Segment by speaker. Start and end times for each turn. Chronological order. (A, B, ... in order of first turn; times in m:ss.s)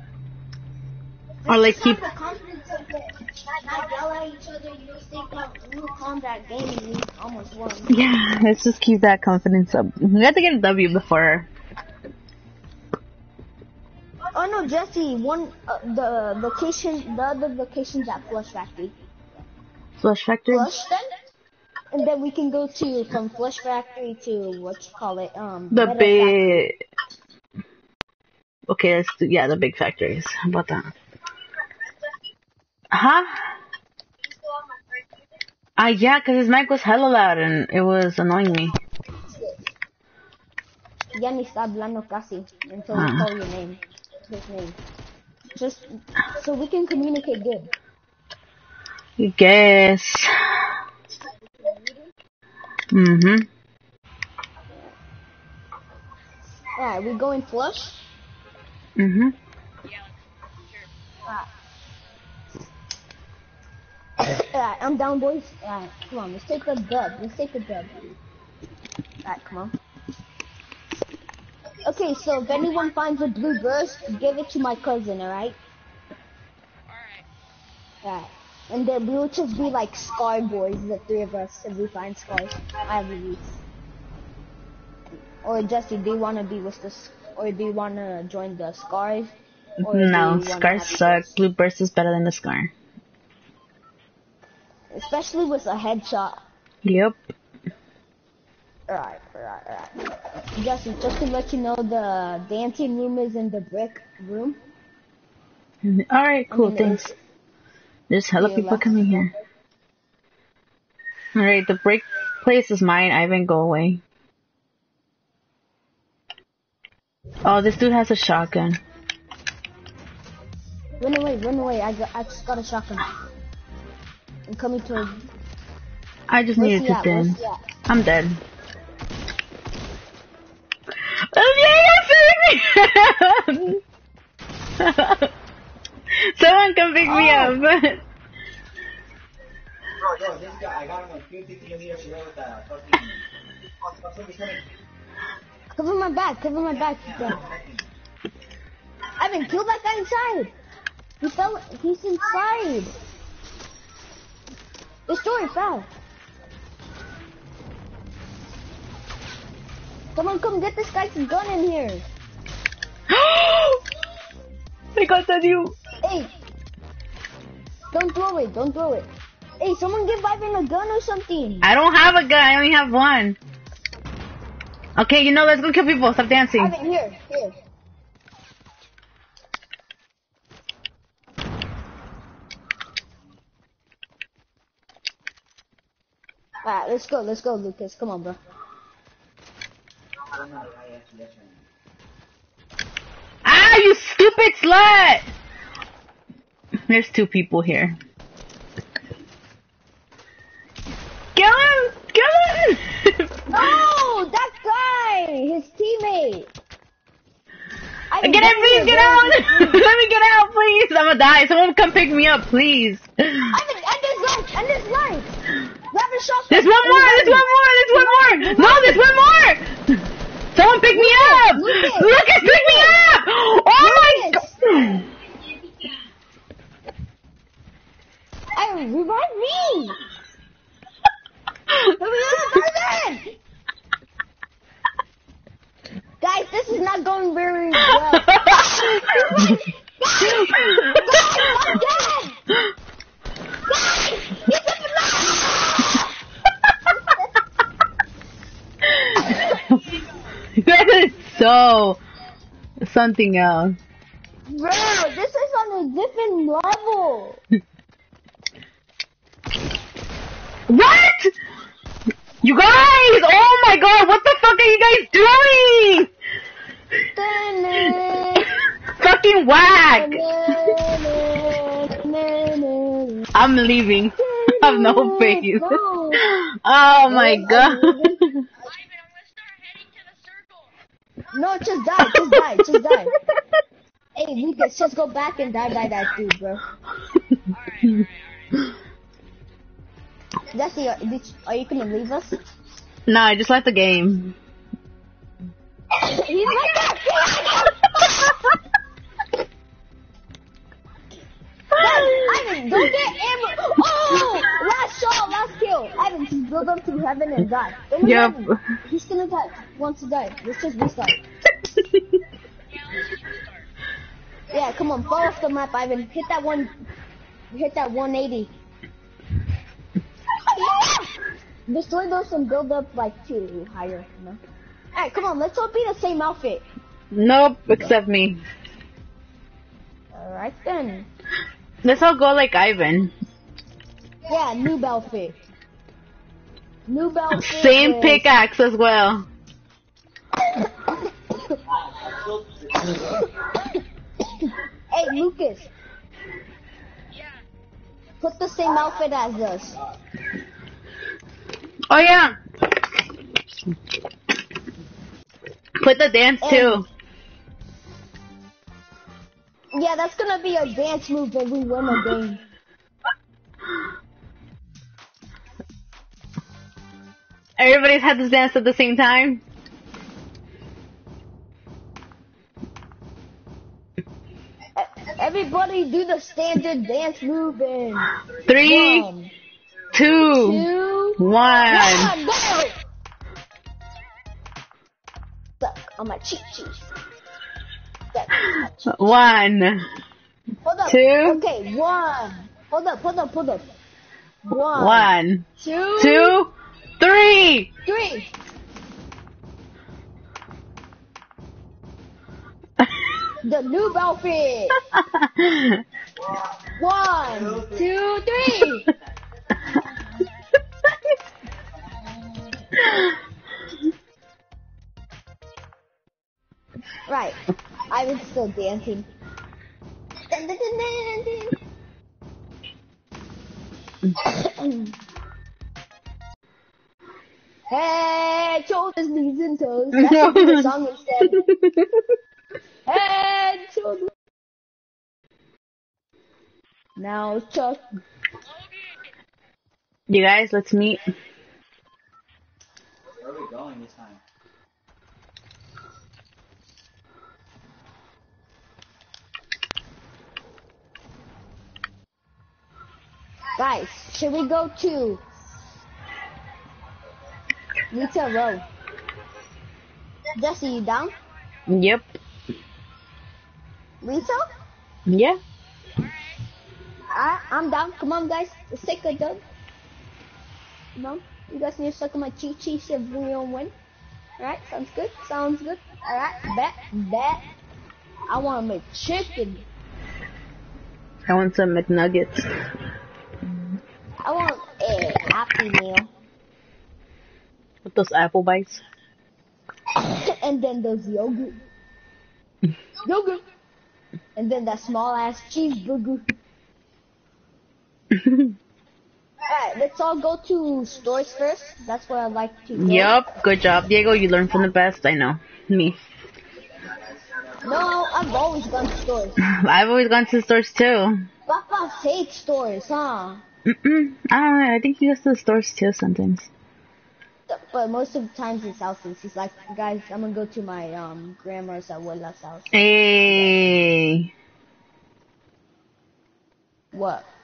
0:01.5-0:07.9 A
0:01.5-0:02.0 B
0:07.9-0:11.5 B
0:14.3-0:18.9 A
0:20.0-0:20.7 B
0:20.5-0:21.1 A
0:21.9-0:26.6 A
0:25.7-0:26.8 B
0:28.7-0:30.9 B
0:32.9-0:33.6 B
0:35.8-0:38.7 B
0:39.3-0:39.7 A
0:41.1-0:44.8 A
0:42.9-0:43.3 B
0:45.5-0:47.7 A
0:49.2-0:50.7 B
0:52.9-0:53.5 B
0:56.8-0:58.0 A
0:59.0-0:59.3 B
0:59.8-1:00.9 C
1:04.3-1:08.0 A
1:09.2-1:09.7 A
1:11.8-1:15.6 A
1:16.9-1:17.3 C
1:18.0-1:23.4 A
1:25.4-1:29.3 A
1:29.8-1:31.3 A
1:29.9-1:32.7 B
1:34.9-1:36.4 A
1:36.8-1:37.2 B
1:38.9-1:40.0 A
1:40.6-1:44.6 A
1:45.8-1:47.1 B
1:46.5-1:47.1 A
1:48.1-1:49.3 B
1:48.4-1:49.2 A
1:51.4-1:54.0 B
1:57.4-1:58.8 B
2:01.0-2:03.1 A
2:04.5-2:05.2 A
2:06.3-2:08.4 B
2:06.6-2:07.6 A
2:11.1-2:13.8 B
2:14.8-2:15.3 B
2:16.1-2:18.0 B
2:17.0-2:17.5 A
2:20.0-2:23.2 D
2:23.8-2:24.7 D
2:25.8-2:27.4 A
2:27.0-2:27.9 D
2:29.2-2:30.5 A
2:31.2-2:32.9 A
2:35.1-2:35.9 A
2:40.2-2:42.0 A
2:43.1-2:43.8 B
2:45.0-2:45.8 B
2:46.0-2:46.3 A
2:47.9-2:49.1 A
2:49.6-2:51.7 A
2:51.6-2:53.4 B
2:55.0-2:56.7 B
2:56.6-2:57.5 A
3:06.6-3:08.4 A
3:10.3-3:11.7 D
3:13.4-3:15.3 B
3:16.9-3:18.0 B
3:21.4-3:23.7 B
3:23.5-3:26.5 A
3:28.1-3:29.8 A
3:28.2-3:33.5 B
3:33.5-3:35.4 A
3:35.9-3:39.0 A
3:36.5-3:40.0 B
3:40.6-3:45.1 B
3:40.9-3:43.0 A
3:43.8-3:44.6 A
3:48.6-3:50.0 A
3:52.0-3:53.3 A
3:56.2-4:02.4 A
3:57.9-3:59.6 B
4:00.2-4:01.6 B
4:03.7-4:06.0 A
4:08.9-4:09.8 B
4:10.6-4:12.0 B
4:12.8-4:13.8 B
4:14.5-4:17.4 A
4:20.7-4:21.3 B
4:22.4-4:26.1 B
4:27.1-4:28.5 A
4:29.0-4:30.7 B
4:29.8-4:33.3 A
4:33.4-4:38.4 B
4:34.2-4:36.3 A
4:37.1-4:38.2 A
4:38.6-4:40.7 C
4:41.3-4:43.1 A
4:44.2-4:46.6 A
4:47.5-4:48.7 C
4:50.5-4:52.4 A
4:53.1-4:54.4 B
4:56.0-4:57.9 A
5:01.8-5:11.2 A
5:01.8-5:02.4 B
5:08.0-5:08.6 B
5:12.7-5:13.7 C
5:14.5-5:16.7 A
5:17.5-5:18.5 A
5:20.4-5:21.1 A
5:21.7-5:24.4 A
5:25.0-5:26.6 A
5:27.1-5:28.4 B
5:30.1-5:31.1 A
5:31.8-5:33.1 B
5:34.3-5:35.4 A
5:36.9-5:38.3 A
5:37.3-5:39.3 B
5:41.9-5:43.2 D
5:44.4-5:45.7 A
5:47.2-5:47.4 C
5:48.2-5:49.8 A
5:51.9-5:52.4 B
5:55.8-5:56.9 B
5:56.4-5:56.8 A
5:59.7-6:02.4 A
6:07.6-6:09.4 B
6:14.8-6:19.3 A
6:18.5-6:19.1 B
6:19.9-6:20.6 B
6:20.3-6:22.7 A
6:21.2-6:22.1 B
6:25.6-6:26.9 A
6:28.1-6:28.9 A
6:28.9-6:29.9 B
6:30.6-6:33.7 A
6:30.8-6:31.4 B
6:34.5-6:36.5 A
6:34.7-6:35.4 B
6:36.0-6:37.7 B
6:37.8-6:38.3 A
6:43.4-6:44.8 A
6:44.9-6:45.8 B
6:46.2-6:46.6 D
6:46.8-6:48.9 A
6:47.2-6:47.9 D
6:57.1-6:59.1 A
7:00.3-7:01.6 A
7:04.2-7:04.9 A
7:07.7-7:11.5 A
7:10.0-7:10.7 B
7:11.3-7:12.0 B
7:12.9-7:14.1 A
7:17.0-7:17.8 A
7:18.5-7:19.0 C
7:20.1-7:21.0 B
7:23.1-7:24.2 D
7:33.6-7:35.2 A
7:37.9-7:38.6 A
7:40.4-7:41.1 A
7:41.7-7:42.0 B
7:44.0-7:44.5 A
7:45.1-7:45.4 B
7:46.0-7:46.4 C
7:47.1-7:49.4 A
7:51.0-7:53.7 A
7:54.4-7:57.4 A
7:58.3-7:59.6 A
8:01.3-8:02.5 B
8:04.2-8:06.1 A
8:07.8-8:08.8 B
8:10.0-8:11.6 A
8:13.0-8:13.4 A
8:14.4-8:16.3 A
8:18.1-8:18.6 B
8:19.5-8:23.2 A
8:22.8-8:26.0 B
8:26.8-8:27.8 D
8:27.6-8:29.4 A
8:29.4-8:31.2 B
8:31.5-8:33.4 A
8:33.7-8:36.5 B
8:37.5-8:42.8 A
8:42.7-8:44.3 B
8:46.9-8:47.3 A